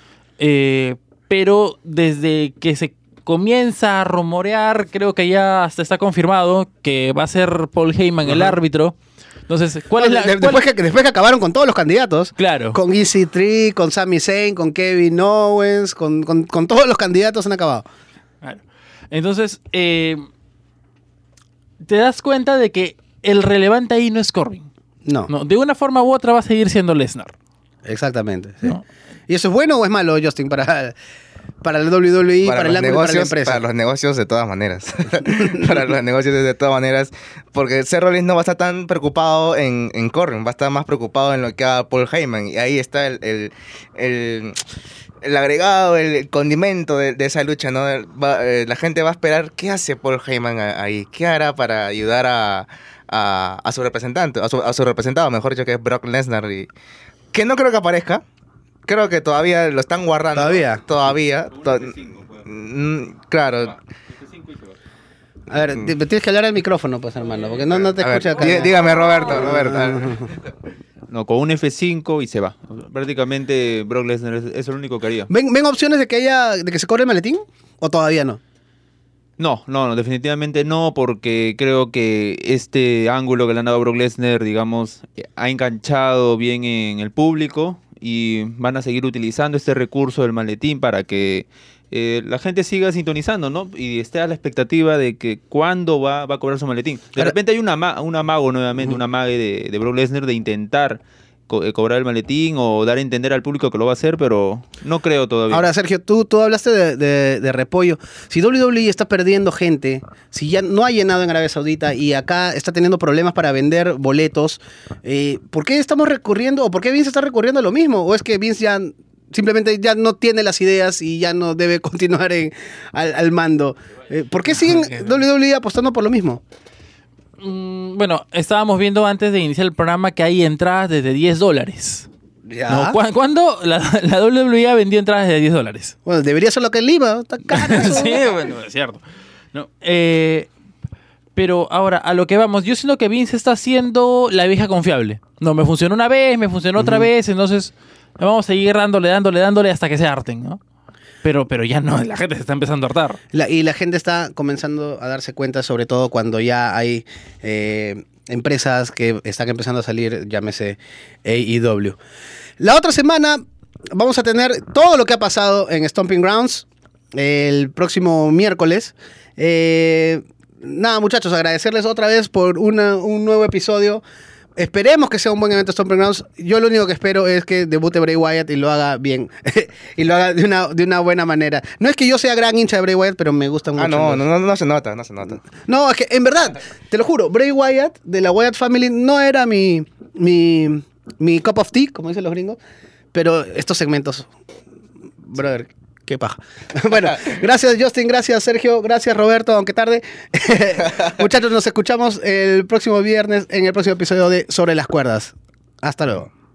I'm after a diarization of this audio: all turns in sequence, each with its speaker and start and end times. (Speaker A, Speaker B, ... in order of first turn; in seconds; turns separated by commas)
Speaker A: 0.4-8.9, Speaker B: 8.2-8.6, Speaker A: 9.5-10.6, Speaker B: 10.0-17.8, Speaker A: 12.4-12.8, Speaker A: 18.4-20.2, Speaker A: 21.8-24.7, Speaker A: 25.3-27.3, Speaker B: 27.9-28.8, Speaker B: 29.3-30.9, Speaker B: 31.6-33.6, Speaker C: 32.4-44.6, Speaker C: 45.2-56.7, Speaker C: 57.3-58.2, Speaker C: 58.9-63.8, Speaker B: 60.3-60.8, Speaker D: 61.8-62.3, Speaker D: 64.3-64.7, Speaker B: 65.5-68.7, Speaker C: 67.9-70.4, Speaker B: 69.3-70.2, Speaker D: 71.1-75.3, Speaker B: 75.3-78.4, Speaker D: 79.4-105.7, Speaker B: 105.5-126.4, Speaker A: 127.4-132.1, Speaker B: 132.5-133.0, Speaker A: 132.7-135.9, Speaker B: 136.0-138.2, Speaker A: 137.5-140.5, Speaker A: 141.3-150.6, Speaker B: 146.8-147.1, Speaker A: 151.2-153.2, Speaker B: 153.3-162.0, Speaker B: 162.6-174.0, Speaker B: 174.6-184.2, Speaker C: 183.8-185.4, Speaker B: 185.7-192.6, Speaker B: 193.1-194.3, Speaker B: 195.3-206.3